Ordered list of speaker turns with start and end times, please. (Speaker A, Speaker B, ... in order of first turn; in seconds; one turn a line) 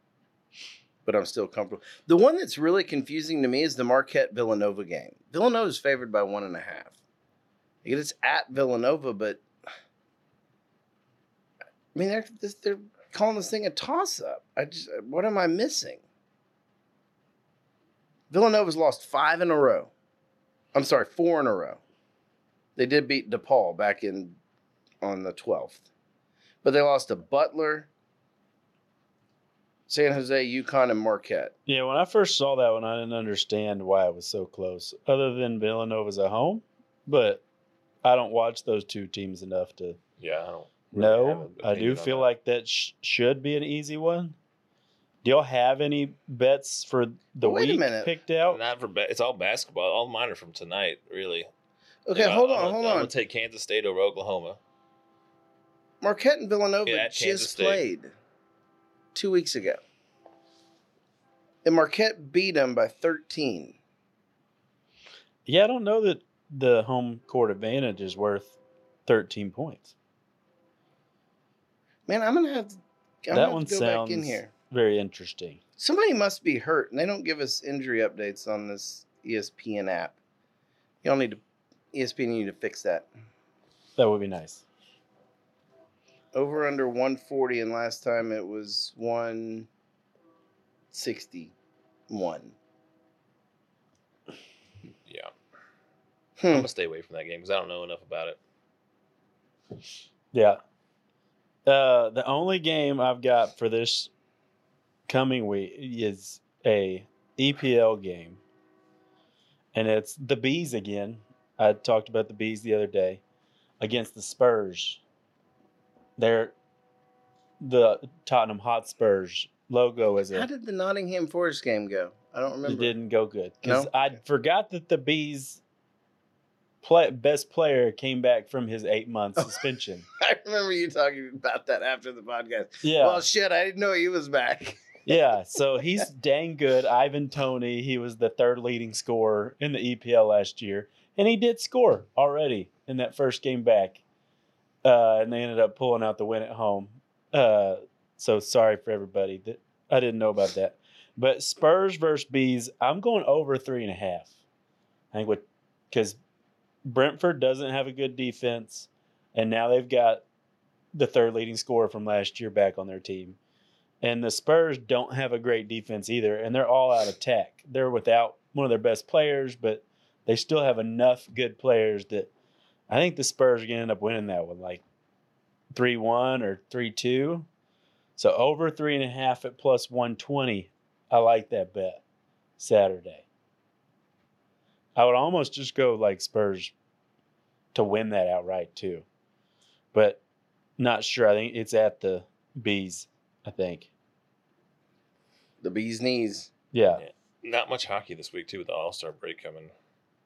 Speaker A: 1.0-6.9
Speaker A: 7.8-9.4
Speaker A: 11.9-16.0
Speaker A: 18.3-19.9
Speaker A: 20.7-21.8
Speaker A: 22.8-24.4
Speaker A: 25.0-25.8
Speaker A: 26.6-27.9
Speaker A: 29.9-31.5
Speaker B: 31.6-37.4
Speaker B: 38.0-40.0
Speaker C: 40.2-42.3
Speaker B: 40.9-44.4
Speaker B: 45.2-48.6
Speaker A: 47.4-48.1
Speaker C: 48.5-51.5
Speaker A: 52.0-53.1
Speaker C: 52.1-54.6
Speaker A: 56.0-58.1
Speaker C: 56.9-57.8
Speaker A: 59.1-59.8
Speaker A: 61.6-63.8
Speaker B: 65.5-69.9
Speaker A: 72.1-74.5
Speaker B: 73.3-75.6
Speaker A: 75.8-80.2
Speaker A: 81.0-81.4
Speaker A: 81.9-83.1
Speaker B: 84.0-84.6
Speaker A: 86.3-89.7
Speaker A: 90.9-91.5
Speaker A: 92.1-92.5
Speaker A: 96.4-96.7
Speaker C: 96.5-98.4
Speaker B: 100.3-100.6
Speaker B: 101.7-104.1
Speaker B: 105.1-108.4
Speaker B: 109.7-113.2
Speaker B: 113.8-115.0
Speaker B: 116.2-116.5
Speaker B: 117.6-120.5
Speaker A: 120.3-122.9
Speaker B: 122.7-125.6
Speaker A: 123.6-123.9
Speaker B: 126.8-130.1
Speaker A: 129.4-129.6
Speaker A: 130.2-134.9
Speaker B: 132.8-133.2
Speaker B: 135.1-144.0
Speaker B: 144.8-154.3
Speaker B: 155.1-156.2
Speaker B: 156.8-160.2
Speaker B: 160.9-163.4
Speaker B: 164.0-172.3
Speaker B: 172.9-174.8
Speaker B: 175.7-177.5
Speaker B: 178.2-182.0
Speaker B: 182.6-183.2
Speaker B: 184.9-186.7
Speaker B: 187.7-189.0
Speaker B: 189.9-190.2
Speaker B: 190.8-193.9
Speaker A: 195.6-196.5
Speaker B: 196.7-197.0
Speaker C: 197.0-199.7